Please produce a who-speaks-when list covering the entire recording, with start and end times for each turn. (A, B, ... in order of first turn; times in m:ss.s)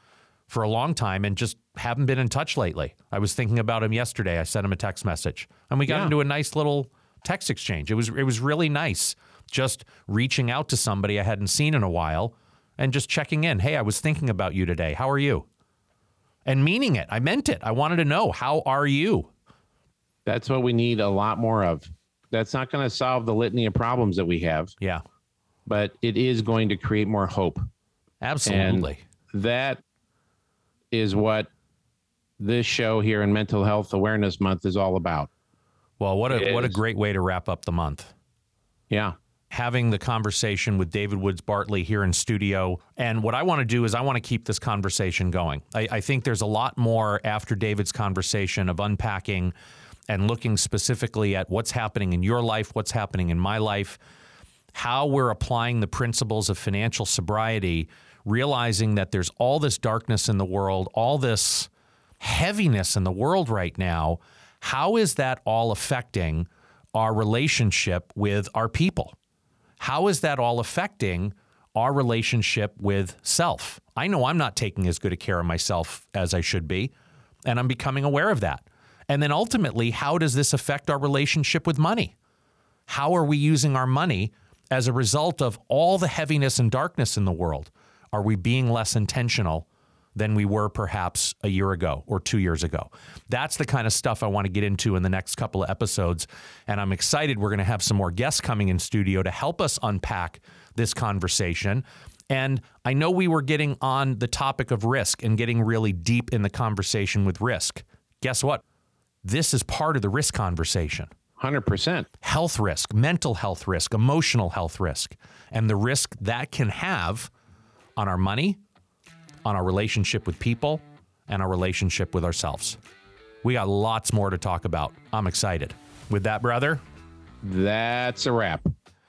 0:00.5-0:15.4 A
0:05.9-0:06.1 B
0:16.4-0:19.3 A
0:20.2-0:24.7 B
0:25.6-0:27.7 B
0:28.2-0:29.0 A
0:28.4-0:29.8 B
0:30.9-0:31.5 B
0:32.4-0:35.3 B
0:36.0-0:38.1 A
0:36.3-0:36.8 B
0:38.9-0:39.2 B
0:39.5-0:49.5 A
0:50.1-0:54.0 A
0:54.7-1:01.7 A
1:02.2-1:09.1 A
1:09.8-1:16.9 A
1:17.4-1:22.1 A
1:22.9-1:48.6 A
1:49.2-1:51.1 A
1:51.4-1:52.1 B
1:52.2-1:57.3 A
1:58.0-1:58.6 A
1:59.4-2:02.8 A
2:03.4-2:06.8 A
2:07.4-2:08.7 B